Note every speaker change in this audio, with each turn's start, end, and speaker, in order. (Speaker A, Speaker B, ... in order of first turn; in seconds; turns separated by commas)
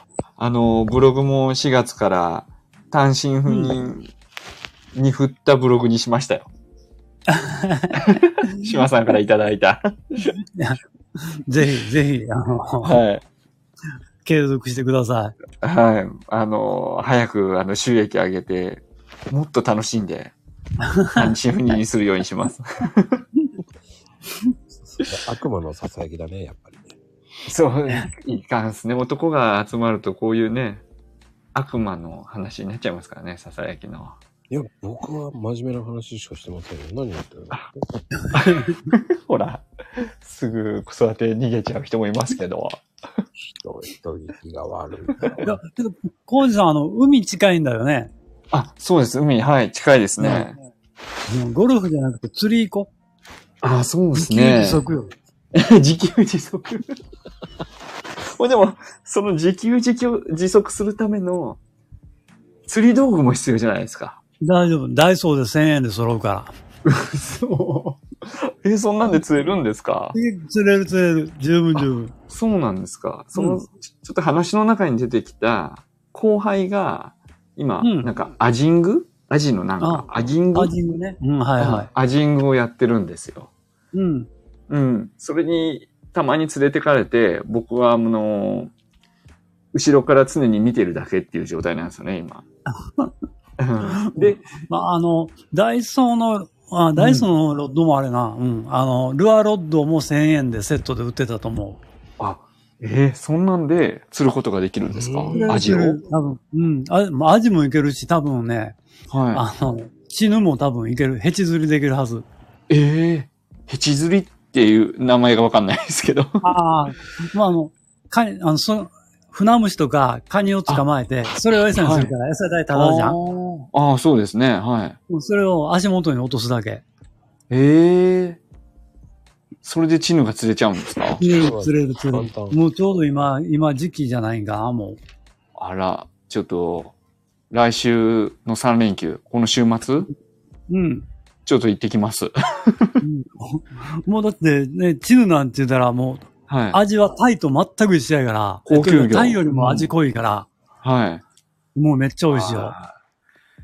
Speaker A: 0.4-4.1, Speaker B: 3.5-3.8, Speaker A: 4.9-6.5, Speaker B: 7.3-8.0, Speaker A: 8.0-10.3, Speaker B: 10.5-10.8, Speaker B: 11.4-13.0, Speaker A: 12.8-13.2, Speaker B: 14.2-15.3, Speaker A: 15.6-20.3, Speaker B: 20.8-21.3, Speaker A: 21.1-23.2, Speaker C: 24.7-26.9, Speaker A: 27.5-30.8, Speaker A: 31.5-34.2, Speaker C: 34.5-38.0, Speaker A: 38.3-42.8, Speaker C: 43.5-45.6, Speaker B: 45.4-48.1, Speaker A: 48.5-50.6, Speaker B: 50.2-50.6, Speaker B: 51.3-52.9, Speaker A: 53.6-54.8, Speaker B: 54.1-55.1, Speaker A: 55.5-56.9, Speaker A: 58.2-61.6, Speaker A: 62.7-64.2, Speaker B: 64.4-66.5, Speaker A: 66.8-70.2, Speaker B: 70.1-72.1, Speaker A: 71.7-80.7, Speaker B: 73.3-73.6, Speaker B: 77.8-78.1, Speaker B: 79.8-81.9, Speaker A: 81.6-83.5, Speaker B: 83.9-84.3, Speaker A: 84.7-88.7, Speaker A: 89.7-92.4, Speaker A: 93.6-94.5, Speaker B: 93.9-101.8, Speaker A: 97.0-97.3, Speaker A: 102.2-106.0, Speaker C: 104.9-105.7, Speaker B: 105.3-108.8, Speaker A: 109.1-109.4, Speaker B: 109.3-112.2, Speaker A: 112.7-116.5, Speaker B: 116.4-123.2, Speaker A: 121.8-122.1, Speaker A: 122.7-125.0, Speaker B: 125.1-126.8, Speaker A: 127.5-128.4, Speaker A: 129.6-131.2, Speaker B: 131.2-135.0, Speaker C: 131.2-132.6, Speaker A: 135.6-136.9, Speaker A: 137.5-140.1, Speaker B: 140.7-141.1, Speaker A: 141.4-143.0, Speaker B: 143.0-150.5, Speaker A: 146.5-146.8, Speaker A: 148.7-149.9, Speaker A: 150.8-151.2, Speaker B: 151.7-152.7, Speaker A: 152.3-152.9